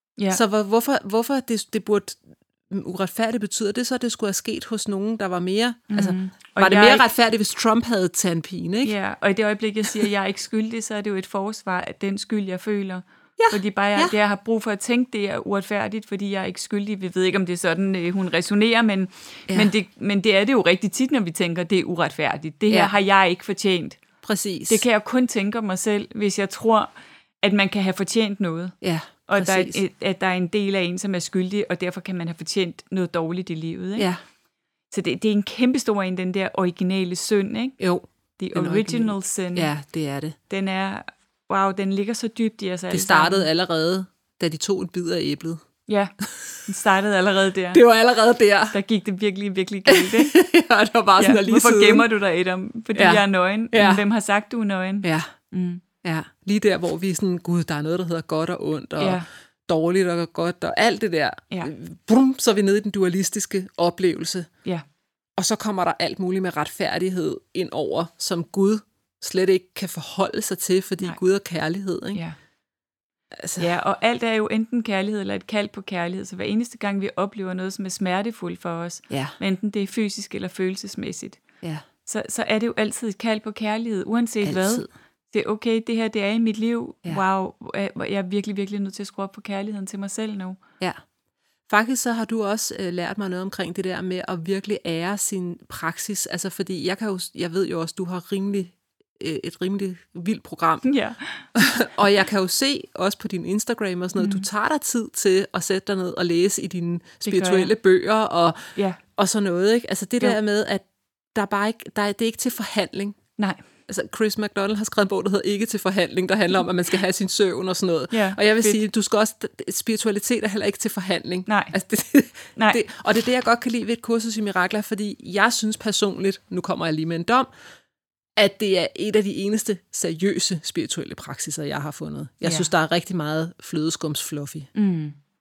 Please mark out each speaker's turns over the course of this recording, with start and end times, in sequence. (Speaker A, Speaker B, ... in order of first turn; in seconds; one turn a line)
Speaker A: 0.3-8.9
Speaker B: 5.9-7.0
Speaker B: 8.8-24.0
Speaker A: 13.4-14.1
Speaker A: 24.2-24.8
Speaker B: 24.7-28.8
Speaker A: 28.8-29.8
Speaker B: 29.3-34.1
Speaker B: 34.9-37.8
Speaker A: 37.8-40.4
Speaker B: 38.4-39.7
Speaker B: 40.5-43.5
Speaker A: 42.9-45.6
Speaker B: 45.9-46.1
Speaker B: 46.7-47.8
Speaker A: 47.7-48.8
Speaker B: 48.7-50.3
Speaker A: 49.9-52.1
Speaker B: 51.2-55.8
Speaker A: 53.0-54.0
Speaker A: 55.0-55.3
Speaker A: 56.0-64.5
Speaker B: 59.0-59.3
Speaker A: 65.4-72.2
Speaker A: 73.3-73.7
Speaker B: 73.6-81.4
Speaker B: 82.1-90.6
Speaker A: 84.5-84.9
Speaker A: 91.7-100.8
Speaker B: 100.8-101.7
Speaker A: 101.5-108.6
Speaker B: 104.2-104.5
Speaker B: 107.2-107.7
Speaker A: 109.2-113.2
Speaker B: 113.4-113.6
Speaker A: 113.9-127.5
Speaker B: 118.1-118.8
Speaker B: 121.5-121.7
Speaker B: 122.6-122.8
Speaker A: 128.4-134.7
Speaker B: 134.8-135.2